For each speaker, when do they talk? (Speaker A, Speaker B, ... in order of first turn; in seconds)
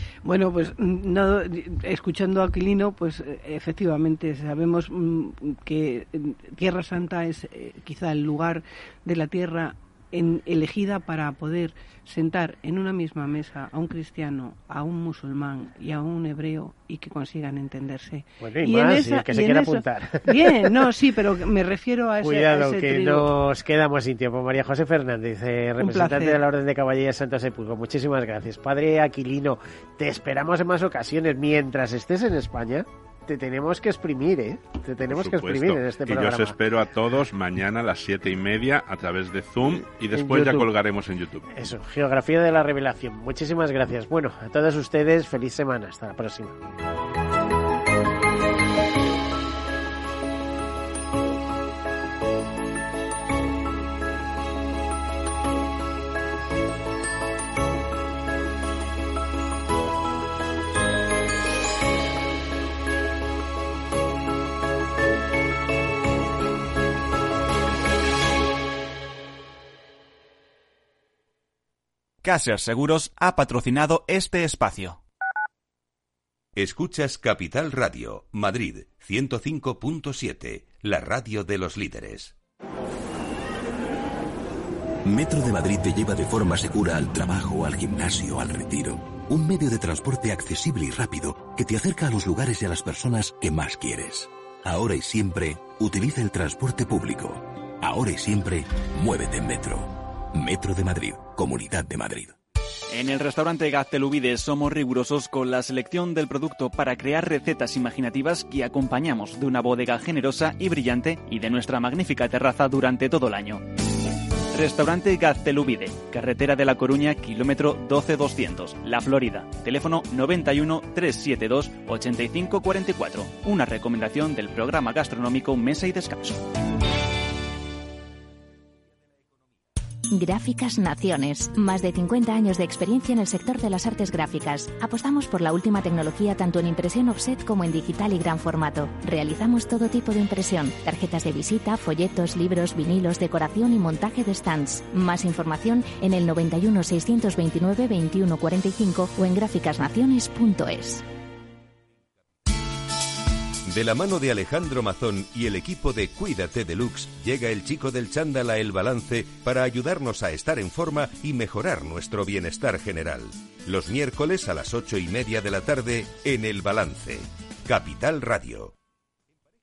Speaker A: 0.2-23.3, 25.8-26.4
Speaker B: 18.4-20.9, 22.2-36.6, 39.8-40.7, 41.5-46.6
Speaker C: 35.0-41.5
Speaker D: 72.2-75.0, 102.9-113.6, 114.5-126.4
Speaker E: 76.5-82.3, 153.7-168.7
Speaker F: 85.0-102.3
Speaker G: 130.1-151.0